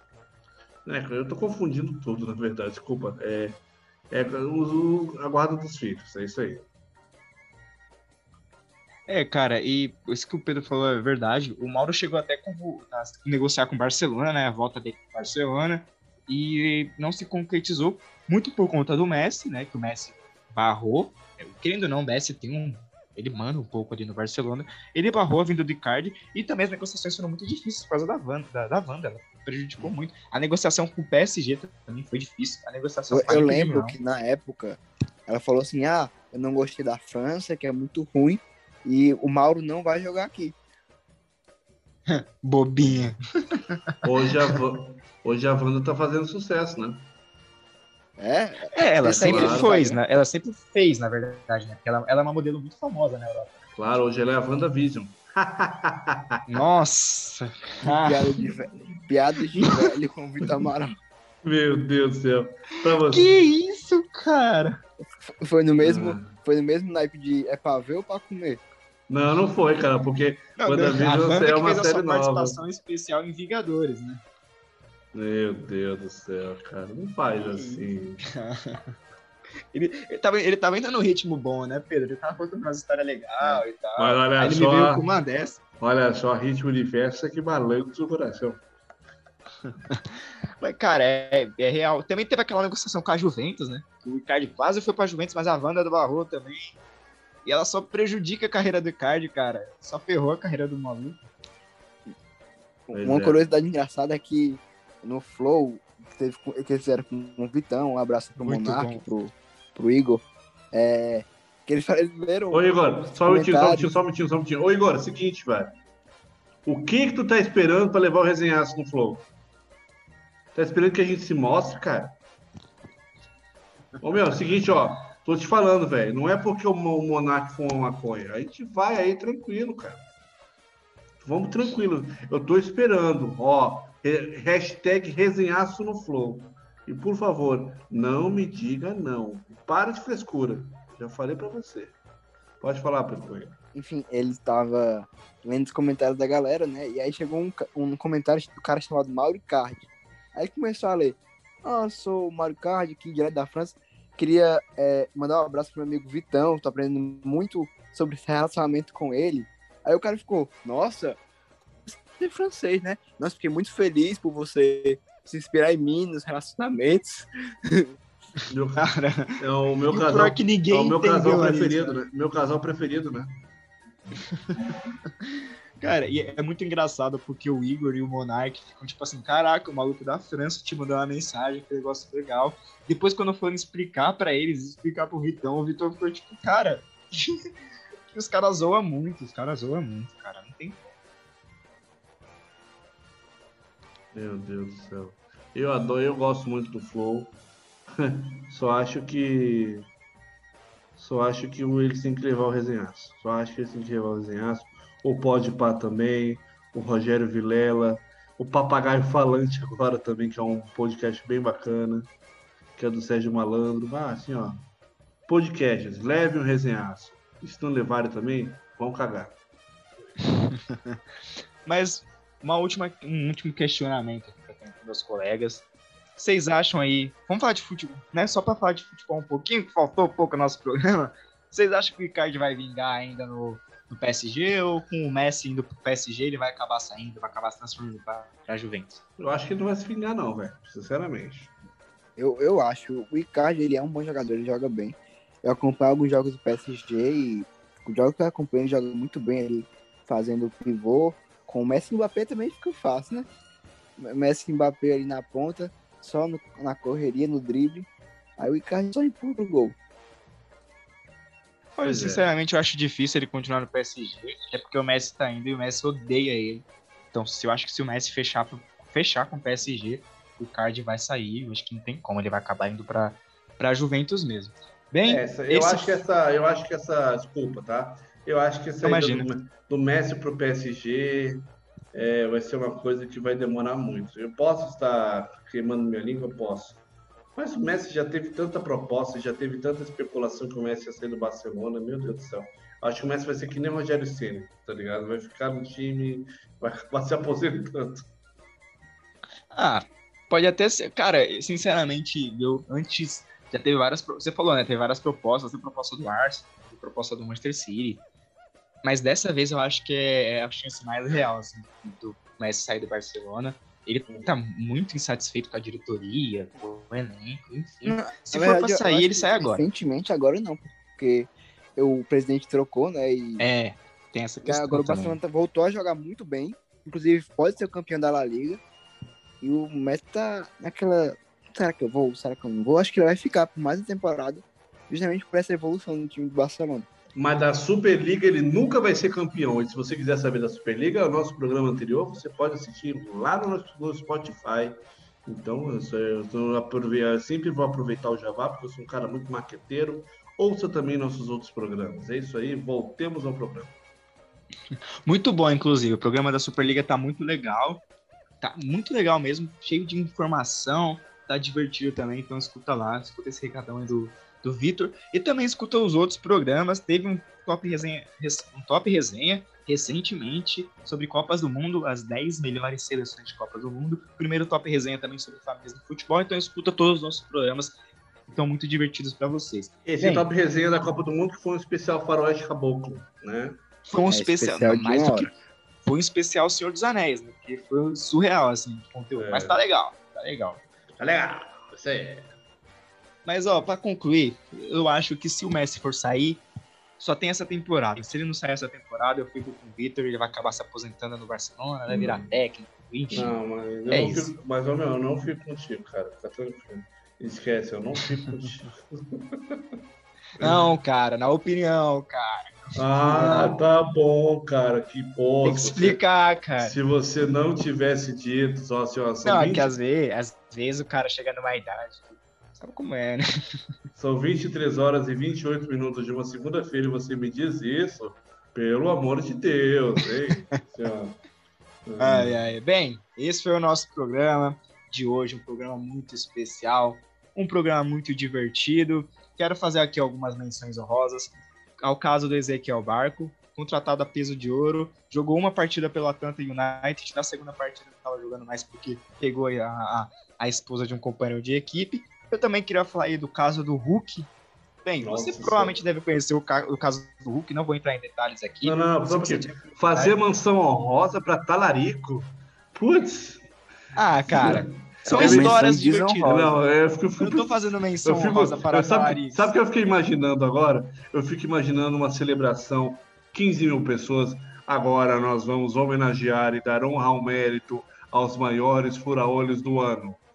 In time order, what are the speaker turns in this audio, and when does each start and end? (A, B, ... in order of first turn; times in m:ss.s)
0:00.8-0:03.6 A
0:04.1-0:06.7 A
0:09.1-0:34.0 B
0:33.1-0:40.6 C
0:42.1-0:44.6 B
0:42.8-0:43.1 A
0:44.0-0:47.0 A
0:48.2-0:50.0 C
0:48.7-0:53.6 B
0:49.1-0:49.8 A
0:53.8-0:56.4 A
0:56.5-0:58.4 B
0:58.0-1:01.0 C
1:01.4-1:03.3 A
1:03.0-1:04.8 B
1:05.2-1:08.6 C
1:05.8-1:06.4 A
1:09.1-1:12.6 A
1:10.6-1:14.2 B
1:15.1-1:18.2 A
1:17.4-1:19.0 B
1:19.7-1:25.6 B
1:23.5-1:25.0 A
1:25.8-1:28.6 A
1:29.9-1:36.8 B
1:37.4-1:41.2 B
1:42.9-1:53.9 C
1:42.9-1:43.4 A
1:48.4-1:49.0 B
1:52.5-1:55.7 A
1:56.7-1:59.3 A
2:00.6-2:02.1 A
2:04.0-2:10.0 A
2:11.2-2:22.0 A
2:22.6-2:23.6 A
2:23.8-2:41.2 C
2:41.9-2:47.9 C
2:48.5-2:53.3 A
2:48.8-2:49.4 B
2:49.9-2:52.0 B
2:55.8-3:07.4 B
3:08.1-3:10.8 B
3:14.1-3:17.4 A
3:18.0-3:19.8 A
3:21.0-3:32.1 A
3:32.8-3:34.6 A
3:35.3-3:39.3 A
3:40.2-3:41.0 B
3:41.6-3:45.6 B
3:46.2-3:59.0 B
3:59.2-4:01.5 A
4:02.2-4:13.3 C
4:14.0-4:19.8 C
4:21.8-4:36.0 B
4:21.8-4:22.3 A
4:35.0-4:41.4 A
4:38.8-4:39.3 B
4:41.9-4:46.8 A
4:47.4-4:58.0 A
4:59.5-5:08.0 B
5:08.8-5:19.7 B
5:17.8-5:23.4 C
5:23.4-5:25.2 B
5:24.4-5:28.6 C
5:29.4-5:36.9 C
5:37.2-5:44.8 A
5:45.3-5:53.7 A
5:55.0-5:57.8 B
5:58.4-6:20.3 B
6:19.9-6:23.6 A
6:23.9-6:25.3 B
6:24.1-6:25.3 C
6:25.8-6:30.6 B
6:29.2-6:29.6 A
6:31.0-6:32.3 A
6:33.2-6:36.4 B
6:37.0-6:43.4 B
6:41.9-6:42.3 A
6:43.1-6:49.6 A
6:43.9-6:44.3 B
6:50.4-6:53.6 B
6:52.8-6:56.0 A
6:55.4-6:56.8 B
6:56.6-6:59.7 A
6:59.2-7:03.2 B
7:04.0-7:11.2 A
7:11.9-7:12.4 A
7:12.0-7:34.3 B
7:34.8-7:40.2 B
7:35.0-7:35.8 A
7:38.6-7:43.5 A
7:44.0-7:46.6 B
7:44.2-8:00.2 A
7:45.0-7:46.5 C
7:47.2-7:49.5 B